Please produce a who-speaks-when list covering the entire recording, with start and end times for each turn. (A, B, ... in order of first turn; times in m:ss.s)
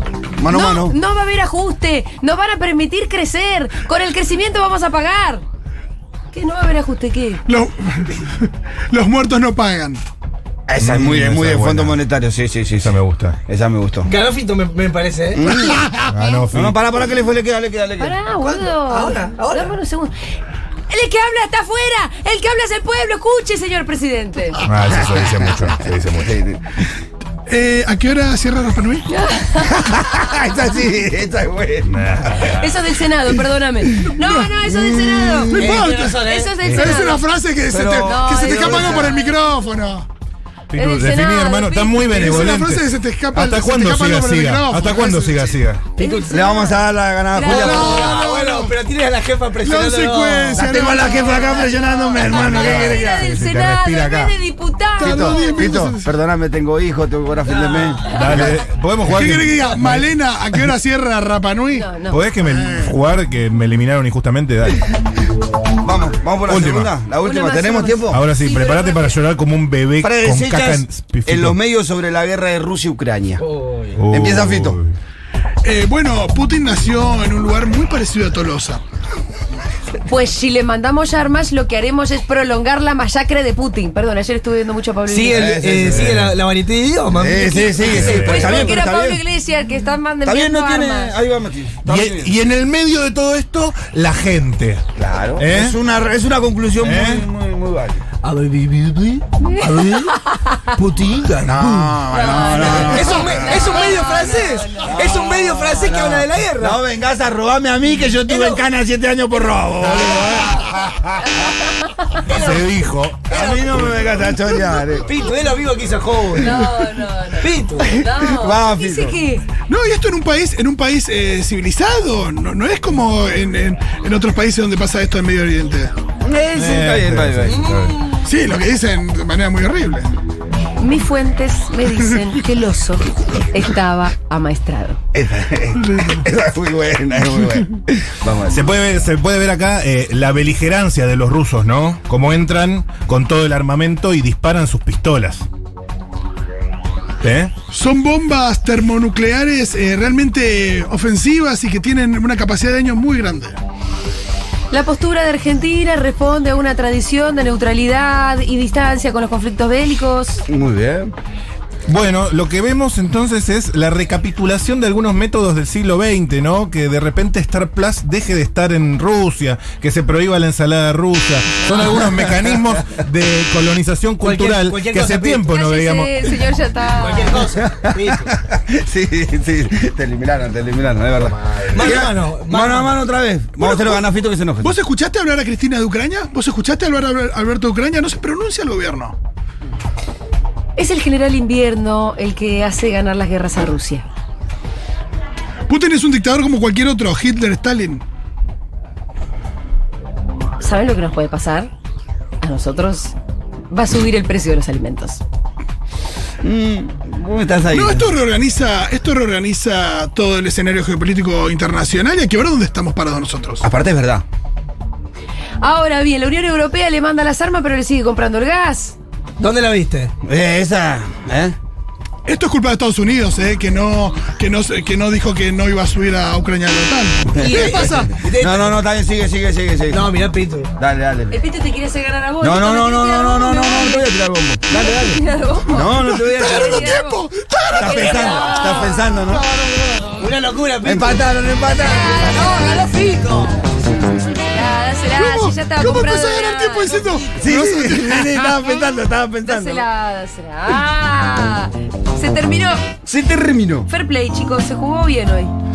0:00.4-0:01.0 A
0:00.5-0:05.4 B
0:06.3-0:07.4 B
0:07.5-0:10.0 C
0:10.7-0:14.1 A
0:10.8-0:12.0 D
0:12.8-0:13.4 D
0:14.1-0:15.7 E
0:15.4-0:18.1 A
0:16.1-0:16.8 D
0:18.0-0:20.1 B
0:18.4-0:19.7 E
0:20.9-0:24.6 B
0:24.7-0:26.4 D
0:25.0-0:26.8 A
0:27.5-0:29.1 C
0:29.1-0:30.4 B
0:29.7-0:32.0 A
0:31.8-0:32.7 D
0:32.4-0:35.6 B
0:34.1-0:34.5 C
0:34.8-0:35.7 A
0:35.5-0:40.1 C
0:35.6-0:36.6 E
0:36.2-0:37.2 B
0:37.7-0:39.2 A
0:38.0-0:39.4 B
0:40.7-0:45.9 D
0:40.7-0:42.5 B
0:42.1-0:45.7 C
0:46.0-0:46.3 E
0:46.0-0:46.8 B
0:46.3-0:48.2 A
0:47.3-0:48.1 B
0:47.4-0:50.7 E
0:47.5-0:48.8 C
0:49.6-0:51.7 C
0:50.5-0:53.4 A
0:51.1-0:55.7 B
0:52.2-0:54.4 D
0:55.0-0:56.1 C
0:55.0-0:58.6 A
0:57.4-0:58.1 E
0:58.0-1:00.0 D
0:59.0-1:03.0 C
1:01.7-1:02.2 B
1:02.1-1:04.8 D
1:05.8-1:08.2 A
1:06.5-1:06.9 D
1:07.2-1:09.2 B
1:08.1-1:11.6 D
1:10.0-1:13.4 A
1:13.4-1:14.0 E
1:14.0-1:14.9 D
1:14.1-1:14.8 A
1:15.6-1:18.8 C
1:20.0-1:25.5 B
1:25.1-1:28.0 E
1:25.3-1:26.3 A
1:25.9-1:26.3 D
1:27.1-1:29.2 A
1:27.8-1:31.2 B
1:27.8-1:28.7 D
1:30.2-1:32.4 A
1:31.9-1:34.8 D
1:35.0-1:38.0 A
1:35.4-1:35.8 D
1:36.8-1:37.2 D
1:38.2-1:46.8 E
1:41.4-1:43.7 A
1:42.1-1:45.0 B
1:44.8-1:50.6 A
1:48.2-1:48.6 E
1:49.8-1:51.1 D
1:51.2-1:52.6 B
1:52.3-1:52.7 E
1:52.3-1:54.0 D
1:53.3-1:53.9 E
1:53.3-1:55.1 A
1:55.0-1:56.8 E
1:56.4-1:59.5 B
1:57.3-1:57.9 E
1:57.9-1:59.2 A
1:59.7-2:05.9 C
2:06.2-2:07.6 A
2:06.5-2:08.1 D
2:08.1-2:10.1 C
2:10.8-2:15.0 B
2:15.1-2:18.6 A
2:15.9-2:16.1 C
2:18.5-2:25.5 D
2:27.2-2:27.5 D
2:27.7-2:33.6 C
2:34.7-2:40.4 B
2:40.5-2:41.1 A
2:41.9-2:56.1 D
2:52.0-2:52.5 A
2:54.2-2:55.5 E
2:55.5-2:57.5 B
2:57.0-2:58.3 E
2:57.5-3:04.8 A
3:01.7-3:03.0 E
3:03.6-3:04.1 C
3:04.6-3:09.2 C
3:10.8-3:14.1 B
3:15.7-3:18.0 C
3:20.6-3:21.7 B
3:22.4-3:23.2 B
3:23.7-3:25.2 B
3:26.4-3:28.1 A
3:27.7-3:33.6 C
3:33.6-3:34.2 A
3:35.6-3:39.0 B
3:39.4-3:40.1 E
3:40.2-3:41.6 A
3:42.3-3:48.2 C
3:47.3-3:50.1 A
3:47.4-3:48.8 E
3:49.9-3:50.7 E
3:50.8-3:51.4 A
3:51.3-3:54.1 B
3:52.4-3:56.9 A
3:54.7-3:57.2 B
3:55.8-4:00.1 C
3:57.7-3:59.5 A
3:57.9-3:58.8 B
3:57.9-3:59.1 E
4:00.1-4:01.2 E
4:00.8-4:02.5 A
4:01.8-4:03.5 B
4:02.3-4:03.6 E
4:03.8-4:04.3 C
4:04.3-4:07.2 B
4:05.2-4:08.7 C
4:07.4-4:09.8 A
4:09.4-4:12.9 B
4:13.0-4:13.9 A
4:13.9-4:15.5 B